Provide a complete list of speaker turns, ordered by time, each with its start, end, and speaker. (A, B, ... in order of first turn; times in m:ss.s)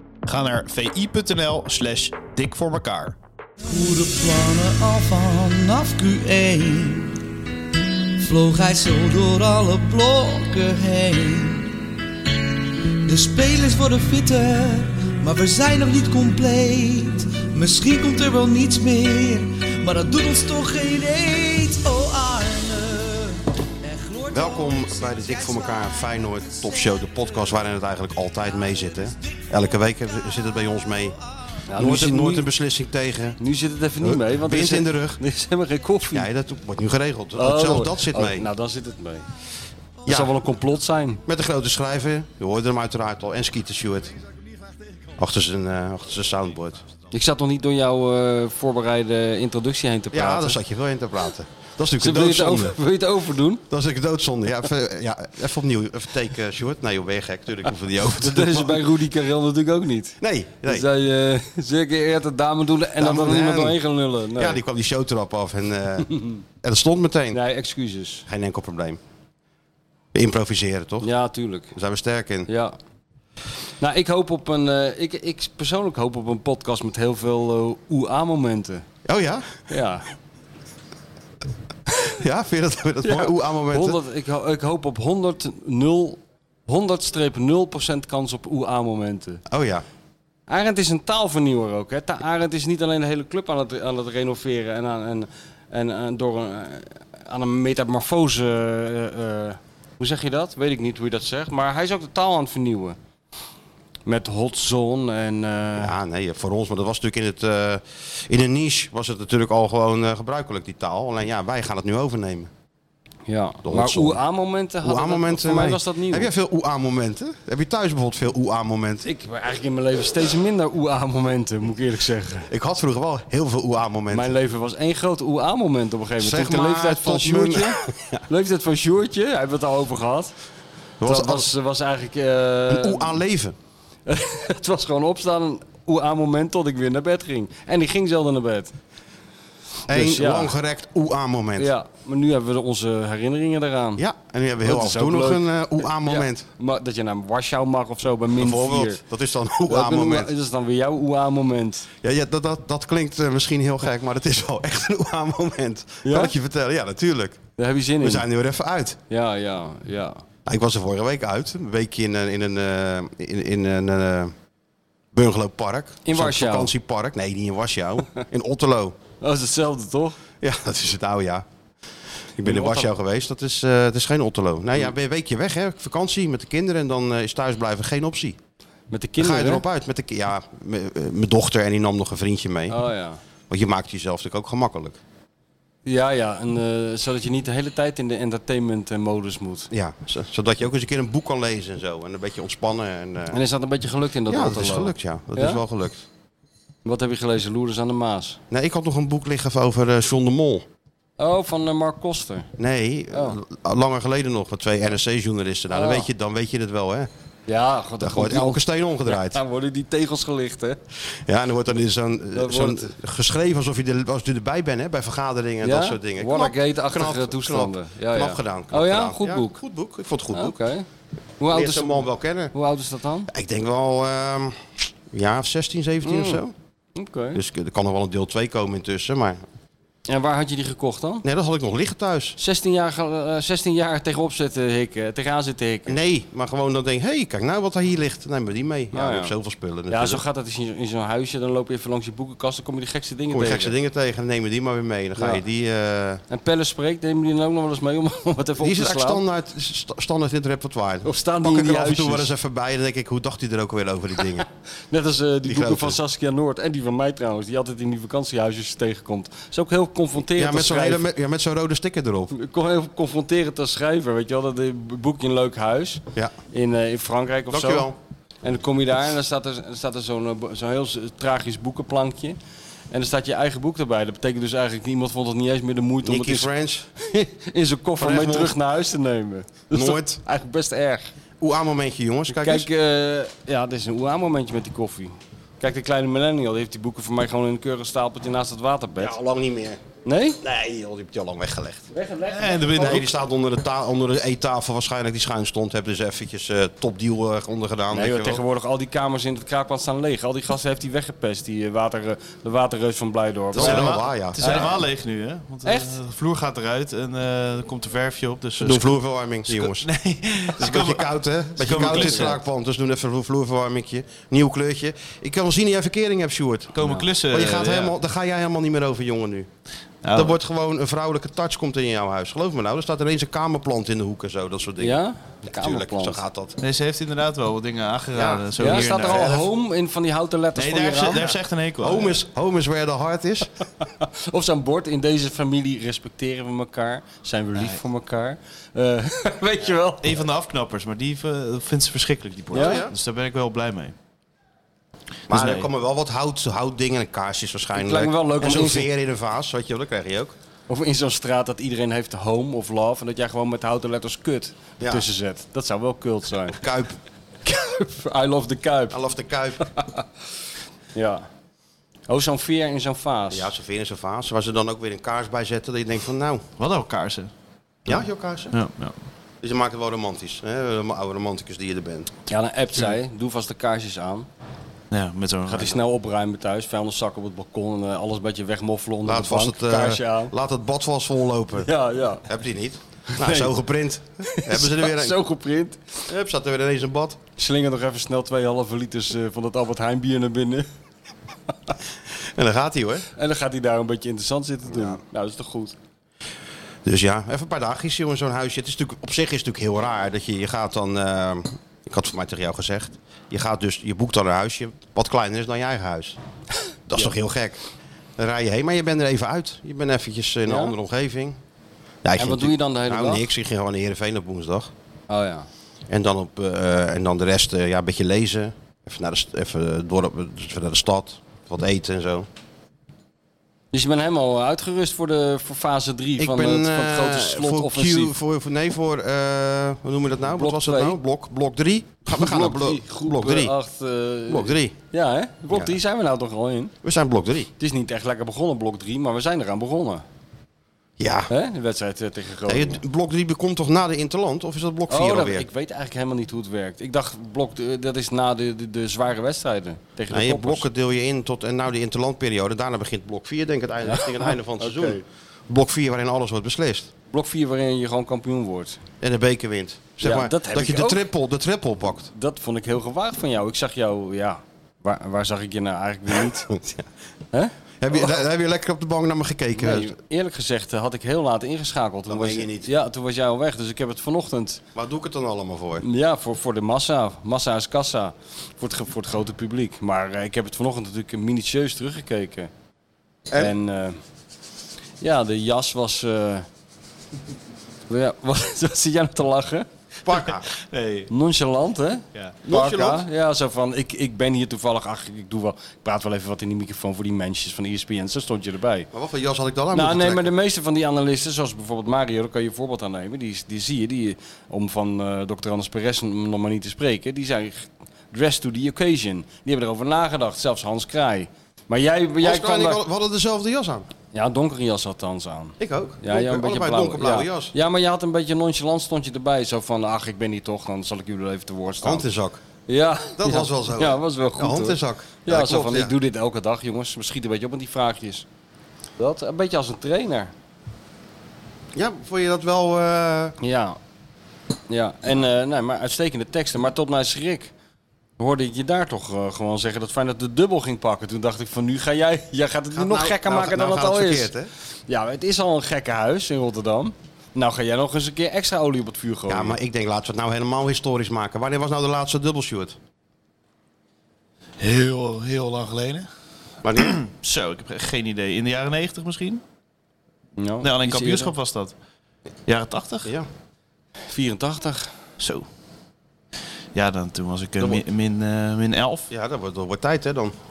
0:00.2-0:03.2 A
0:03.7-0:07.2 B
0:08.2-0:11.8 B
0:13.0-0:27.5 B
0:24.3-0:31.1 C
0:28.8-0:29.1 B
0:31.7-0:32.5 D
0:31.7-0:33.4 C
0:33.4-0:36.3 D
0:34.0-0:35.2 C
0:36.1-0:38.5 C
0:37.4-0:39.2 D
0:40.0-0:40.3 C
0:40.0-0:41.2 D
0:41.2-0:44.2 C
0:45.2-0:46.9 C
0:47.1-0:50.6 D
0:50.1-0:52.8 C
0:52.0-0:53.6 D
0:53.7-0:58.9 C
0:58.1-1:04.6 D
1:00.2-1:00.9 C
1:03.0-1:03.8 C
1:04.3-1:06.1 C
1:06.1-1:06.4 D
1:06.6-1:07.4 C
1:07.3-1:08.2 D
1:08.2-1:09.0 C
1:10.1-1:11.1 C
1:11.0-1:11.7 D
1:11.7-1:12.5 C
1:12.5-1:12.7 D
1:13.8-1:18.8 D
1:19.0-1:19.6 C
1:19.7-1:20.0 D
1:22.0-1:24.0 C
1:23.0-1:29.4 D
1:29.5-1:29.8 C
1:30.5-1:43.0 D
1:44.0-1:45.9 D
1:45.8-1:52.5 C
1:53.3-1:56.3 D
1:53.6-1:54.2 C
1:54.8-1:59.1 C
1:59.0-2:02.5 D
2:02.5-2:04.4 C
2:04.1-2:10.3 D
2:06.2-2:08.2 C
2:11.0-2:11.5 C
2:11.0-2:13.2 D
2:12.7-2:13.6 C
2:14.0-2:18.7 D
2:19.9-2:20.5 D
2:19.9-2:21.7 C
2:21.6-2:24.0 D
2:24.0-2:26.4 C
2:24.6-2:29.0 D
2:28.4-2:30.3 C
2:29.7-2:31.9 D
2:32.0-2:37.4 C
2:36.0-2:36.3 D
2:37.6-2:38.2 D
2:38.0-2:39.0 C
2:39.1-2:40.2 D
2:40.4-2:44.3 C
2:45.1-2:49.0 C
2:46.0-2:46.7 D
2:49.2-2:50.2 D
2:50.4-2:51.4 C
2:52.4-2:52.9 D
2:52.4-2:58.4 C
2:58.9-2:59.6 D
2:59.2-3:02.8 C
3:02.7-3:03.2 D
3:03.5-3:05.0 C
3:05.8-3:09.7 D
3:09.7-3:13.4 C
3:13.3-3:15.6 D
3:14.3-3:16.0 C
3:16.8-3:18.4 D
3:18.5-3:20.6 C
3:21.2-3:22.5 D
3:22.6-3:27.1 C
3:25.7-3:26.1 D
3:27.5-3:30.8 D
3:28.0-3:29.4 C
3:31.1-3:40.6 C
3:32.3-3:32.9 D
3:35.6-3:39.6 D
3:40.3-3:40.9 D
3:41.4-3:43.3 D
3:41.5-3:42.5 C
3:43.3-3:46.5 C
3:46.0-3:46.4 D
3:47.0-3:47.4 D
3:47.3-3:49.4 C
3:50.1-3:51.2 D
3:51.2-3:52.4 C
3:52.4-3:56.0 D
3:55.8-4:00.2 C
3:58.9-3:59.3 D
3:59.9-4:03.7 D
4:03.3-4:06.2 C
4:05.2-4:05.4 D
4:06.3-4:09.2 D
4:08.6-4:14.4 C
4:11.0-4:12.3 D
4:14.9-4:21.0 D
4:15.4-4:16.0 C
4:20.3-4:22.3 C
4:22.3-4:27.9 D
4:27.5-4:28.0 C
4:28.4-4:32.4 D
4:32.9-4:36.5 D
4:36.0-4:36.9 C
4:37.0-4:41.1 D
4:38.0-4:38.5 C
4:39.7-4:40.2 C
4:41.4-4:42.7 C
4:42.3-4:49.1 D
4:49.0-4:49.8 C
4:50.0-4:50.4 D
4:50.4-4:51.9 C
4:51.9-4:53.0 D
4:52.2-4:53.2 A
4:52.7-4:58.4 C
4:57.9-5:04.8 D
5:03.5-5:04.8 C
5:03.5-5:08.9 A
5:05.6-5:06.0 D
5:08.6-5:09.9 C
5:09.5-5:12.4 A
5:10.5-5:19.5 C
5:11.6-5:12.3 D
5:16.7-5:17.9 A
5:20.0-5:20.4 A
5:20.1-5:26.6 C
5:24.8-5:26.2 D
5:26.6-5:29.3 A
5:28.1-5:29.5 C
5:28.6-5:31.2 D
5:30.6-5:32.2 A
5:31.2-5:33.5 C
5:33.8-5:40.1 D
5:40.0-5:43.9 A
5:42.5-5:42.8 D
5:42.5-5:42.9 C
5:45.3-5:45.7 A
5:45.3-5:50.3 C
5:47.7-5:48.9 D
5:50.7-5:56.6 D
5:54.8-5:55.0 C
5:56.4-5:57.0 C
5:57.4-5:59.0 D
5:58.9-5:59.7 C
5:59.8-6:00.0 D
6:00.9-6:01.2 D
6:02.1-6:03.5 D
6:03.3-6:06.4 C
6:06.6-6:07.3 A
6:07.8-6:08.5 C
6:08.5-6:09.0 A
6:09.4-6:12.1 C
6:12.3-6:14.3 D
6:14.9-6:15.8 A
6:15.4-6:20.3 D
6:19.0-6:21.7 C
6:21.6-6:22.2 D
6:22.2-6:25.2 C
6:23.1-6:23.5 D
6:24.3-6:25.9 D
6:26.1-6:27.2 C
6:27.4-6:30.7 D
6:32.2-6:33.1 C
6:33.2-6:35.7 D
6:34.7-6:35.0 C
6:36.8-6:46.2 C
6:46.9-6:47.6 C
6:48.2-6:51.4 C
6:50.5-6:50.7 D
6:52.0-6:54.7 C
6:52.2-6:53.3 D
6:55.1-6:55.5 D
6:55.9-7:02.3 C
7:03.7-7:08.1 D
7:06.2-7:13.5 C
7:10.3-7:11.0 D
7:12.1-7:16.7 D
7:14.3-7:14.7 C
7:15.5-7:15.8 C
7:16.8-7:17.5 C
7:17.6-7:20.0 D
7:21.0-7:21.3 C
7:21.3-7:22.8 D
7:22.5-7:25.5 C
7:24.9-7:30.6 D
7:30.1-7:36.9 C
7:33.9-7:35.0 D
7:37.1-7:38.8 D
7:39.0-7:42.1 C
7:40.0-7:41.0 D
7:42.1-7:46.5 D
7:46.5-7:46.8 C
7:47.3-7:48.1 D
7:47.8-7:50.0 C
7:49.6-7:54.6 D
7:52.1-7:52.7 C
7:54.7-7:55.8 C
7:55.8-8:02.5 D
8:03.3-8:03.5 C
8:03.4-8:04.0 D
8:05.0-8:06.4 D
8:07.9-8:09.7 D
8:10.0-8:10.4 C
8:10.1-8:11.1 A
8:11.1-8:18.9 D
8:12.4-8:13.0 C
8:18.9-8:20.3 C
8:19.7-8:32.8 D
8:32.2-8:33.9 C
8:34.1-8:42.0 D
8:35.6-8:37.5 C
8:41.8-8:42.4 C
8:42.7-8:48.2 D
8:43.2-8:45.9 C
8:49.0-8:50.3 D
8:51.7-8:53.4 C
8:53.4-8:53.8 D
8:54.7-8:57.5 D
8:58.2-9:04.3 D
9:02.7-9:04.5 C
9:04.9-9:09.6 D
9:09.3-9:12.8 C
9:14.6-9:16.1 A
9:16.6-9:17.0 C
9:16.8-9:19.4 A
9:20.4-9:21.3 D
9:20.6-9:21.7 A
9:22.5-9:23.1 A
9:24.1-9:24.9 D
9:25.2-9:25.5 A
9:26.7-9:29.1 A
9:29.1-9:30.3 C